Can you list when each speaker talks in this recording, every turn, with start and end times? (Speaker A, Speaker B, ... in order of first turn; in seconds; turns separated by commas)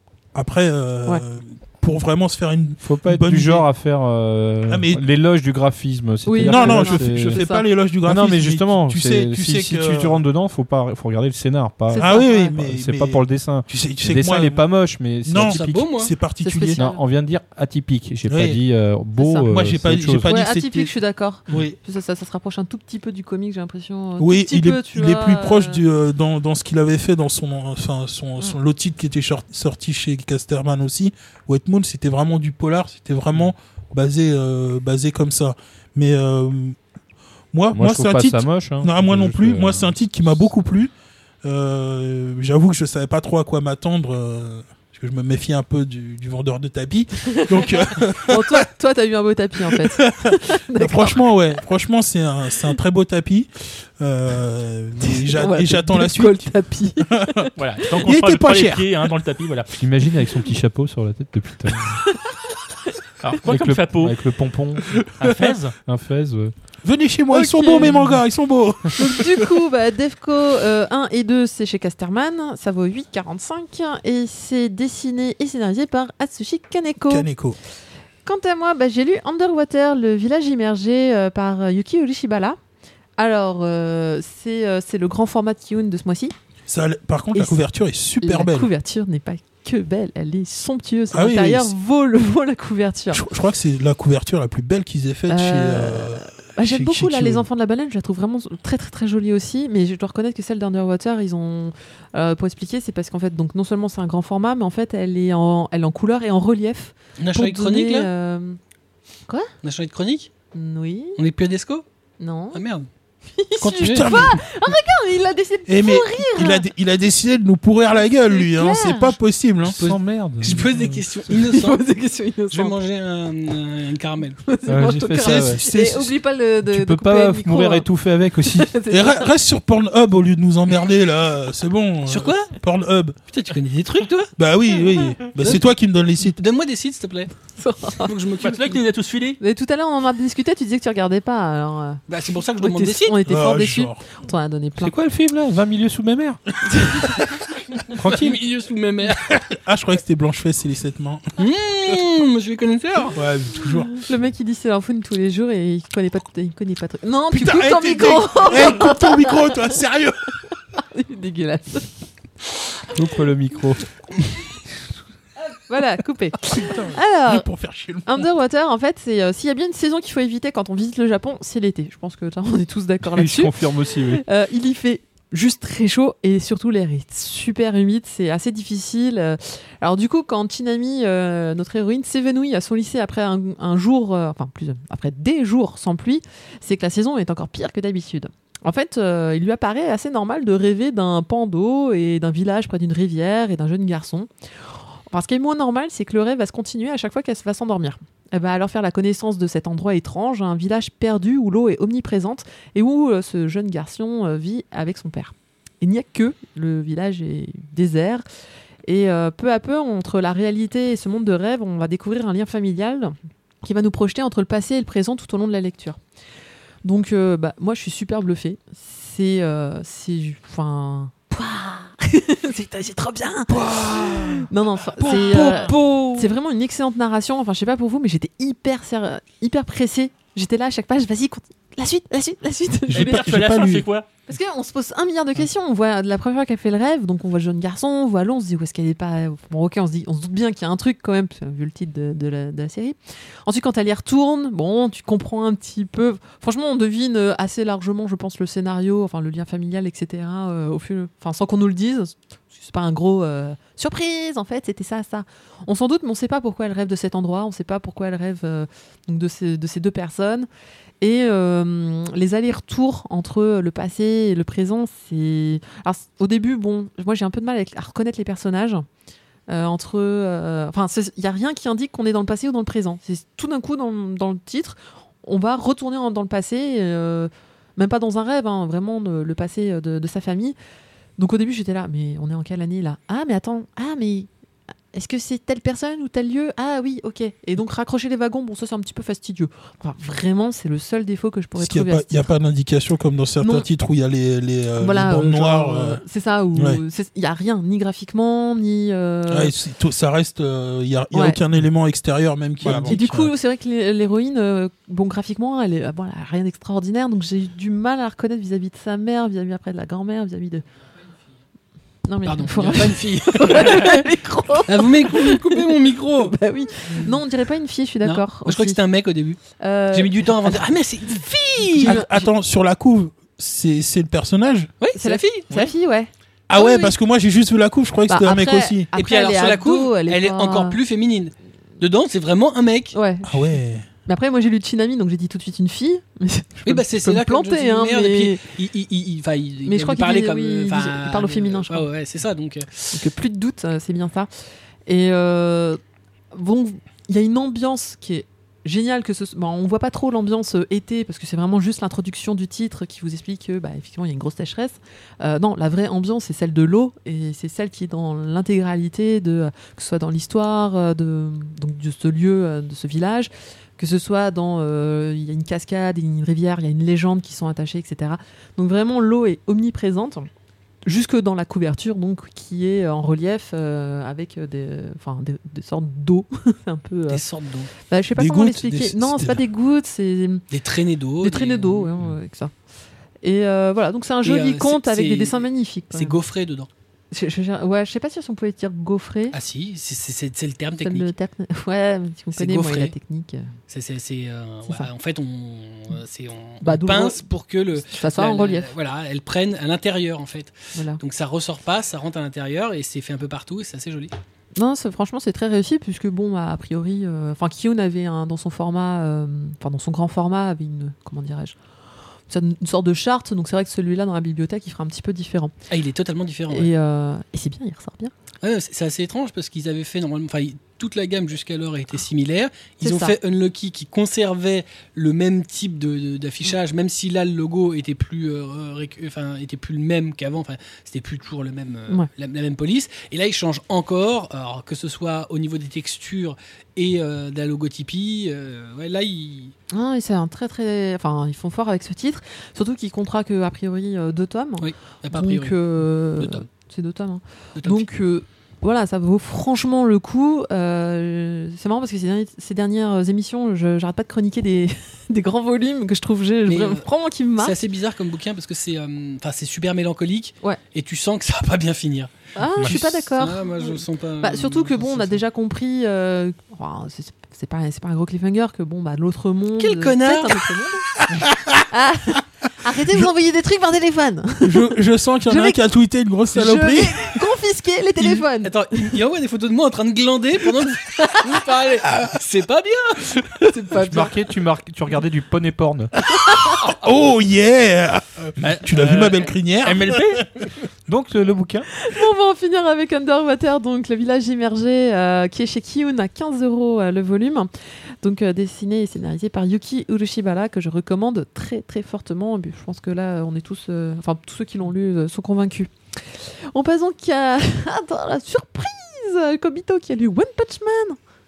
Speaker A: 0.3-3.6, Speaker B: 2.8-7.4, Speaker A: 4.7-5.0, Speaker C: 6.2-7.6, Speaker A: 6.4-10.2, Speaker B: 8.0-15.8, Speaker C: 11.9-12.6, Speaker A: 12.0-14.6, Speaker A: 15.2-16.8, Speaker D: 15.4-16.1, Speaker C: 16.4-17.0, Speaker B: 16.8-20.3, Speaker A: 18.3-18.6, Speaker C: 19.2-19.5, Speaker A: 19.5-20.9, Speaker C: 20.2-25.8, Speaker A: 21.5-21.8, Speaker A: 24.2-36.8, Speaker A: 37.5-40.9, Speaker B: 37.7-40.0, Speaker A: 41.4-48.6, Speaker C: 47.3-51.2, Speaker A: 49.9-56.5, Speaker C: 55.0-57.5, Speaker A: 57.0-57.5, Speaker E: 57.6-59.8, Speaker A: 58.0-58.9, Speaker B: 59.8-62.0, Speaker E: 63.2-64.2, Speaker B: 63.5-65.0, Speaker E: 65.2-65.7, Speaker B: 65.8-66.5, Speaker A: 66.8-69.5, Speaker C: 67.3-68.0, Speaker B: 67.8-68.2, Speaker C: 69.0-77.3, Speaker A: 77.1-77.6, Speaker C: 78.2-82.6, Speaker C: 83.2-86.3, Speaker A: 86.7-88.7, Speaker C: 87.3-87.6, Speaker C: 88.2-93.2, Speaker A: 91.1-91.7, Speaker A: 93.1-97.4, Speaker C: 95.3-108.6, Speaker D: 107.2-108.1, Speaker D: 109.6-110.3, Speaker C: 110.5-111.2, Speaker D: 111.2-111.8, Speaker C: 112.2-112.6, Speaker D: 112.5-112.9, Speaker C: 113.3-116.7, Speaker A: 113.6-114.4, Speaker D: 113.8-114.1, Speaker A: 115.7-119.8, Speaker C: 118.2-119.2, Speaker B: 119.6-121.0, Speaker D: 119.8-121.8, Speaker C: 121.3-122.8, Speaker D: 122.5-124.4, Speaker C: 124.5-127.9, Speaker B: 124.7-125.6, Speaker A: 125.2-126.1, Speaker B: 126.7-128.7, Speaker C: 128.4-129.3, Speaker A: 128.9-133.2, Speaker D: 132.1-132.6, Speaker D: 133.3-134.3, Speaker A: 134.4-136.4, Speaker D: 136.3-137.3, Speaker C: 137.6-138.1, Speaker D: 138.0-138.8, Speaker E: 138.4-139.4, Speaker C: 139.4-142.0, Speaker D: 142.1-143.2, Speaker C: 142.6-144.9, Speaker A: 143.3-144.0, Speaker B: 144.8-146.4, Speaker C: 146.7-147.2, Speaker D: 147.9-149.4, Speaker B: 147.9-148.4, Speaker A: 149.5-151.3, Speaker D: 151.4-153.2, Speaker A: 153.1-154.0, Speaker C: 153.9-159.7, Speaker A: 157.3-160.3, Speaker C: 160.8-161.9, Speaker B: 162.9-163.9, Speaker C: 165.7-167.4, Speaker A: 166.5-168.2, Speaker C: 168.1-194.3, Speaker B: 173.0-174.2, Speaker C: 195.1-208.2, Speaker C: 208.8-216.0, Speaker C: 216.8-233.2, Speaker A: 223.5-224.4, Speaker A: 225.0-225.7, Speaker E: 225.3-225.7, Speaker A: 232.9-233.8, Speaker E: 232.9-234.1, Speaker C: 234.3-260.5, Speaker C: 261.0-268.8, Speaker C: 269.5-280.6, Speaker C: 281.2-284.3, Speaker C: 284.9-292.3, Speaker A: 291.6-296.0, Speaker C: 293.4-293.7, Speaker C: 294.8-299.5, Speaker A: 296.5-296.8, Speaker A: 299.3-303.3, Speaker C: 301.1-301.4, Speaker E: 302.6-302.9, Speaker C: 302.6-310.6, Speaker C: 312.1-318.8, Speaker D: 312.2-314.0, Speaker D: 314.6-316.4, Speaker D: 318.0-319.4, Speaker C: 319.6-322.2, Speaker D: 319.9-322.1, Speaker A: 321.8-324.7, Speaker D: 324.8-325.7, Speaker C: 324.9-326.9, Speaker A: 326.5-328.9, Speaker C: 328.1-330.8, Speaker D: 328.9-333.0, Speaker C: 332.9-333.5, Speaker A: 333.2-333.9, Speaker C: 334.1-338.5, Speaker D: 336.6-343.1, Speaker C: 339.6-341.9, Speaker C: 342.9-344.3, Speaker C: 344.9-345.8, Speaker C: 346.3-370.3, Speaker C: 370.8-377.2, Speaker D: 377.1-377.7, Speaker C: 377.9-380.4, Speaker A: 378.1-379.4, Speaker D: 380.5-381.9, Speaker C: 381.2-382.5, Speaker C: 383.2-386.2, Speaker D: 384.2-386.7, Speaker C: 387.1-389.4, Speaker D: 389.3-391.1, Speaker C: 390.8-393.5, Speaker D: 392.3-392.9, Speaker D: 393.7-404.1, Speaker C: 396.6-397.2, Speaker C: 397.9-398.7, Speaker C: 400.7-401.0, Speaker C: 404.6-411.6, Speaker C: 412.3-415.5, Speaker D: 415.7-416.7, Speaker C: 416.5-418.1, Speaker D: 418.4-439.5, Speaker C: 422.8-423.1, Speaker C: 439.7-457.6, Speaker D: 444.6-445.6, Speaker D: 446.2-446.4, Speaker D: 447.6-447.9, Speaker D: 456.4-456.9, Speaker D: 457.4-465.2, Speaker C: 462.4-470.9, Speaker D: 469.6-470.5, Speaker A: 471.1-471.6, Speaker C: 471.7-474.7, Speaker A: 474.4-477.2, Speaker C: 475.3-475.6, Speaker C: 476.3-478.9, Speaker D: 478.1-483.4, Speaker C: 483.4-484.1, Speaker B: 483.8-485.9, Speaker A: 486.2-490.5, Speaker E: 488.4-490.2, Speaker B: 490.9-491.7, Speaker C: 491.8-497.5, Speaker C: 498.0-511.0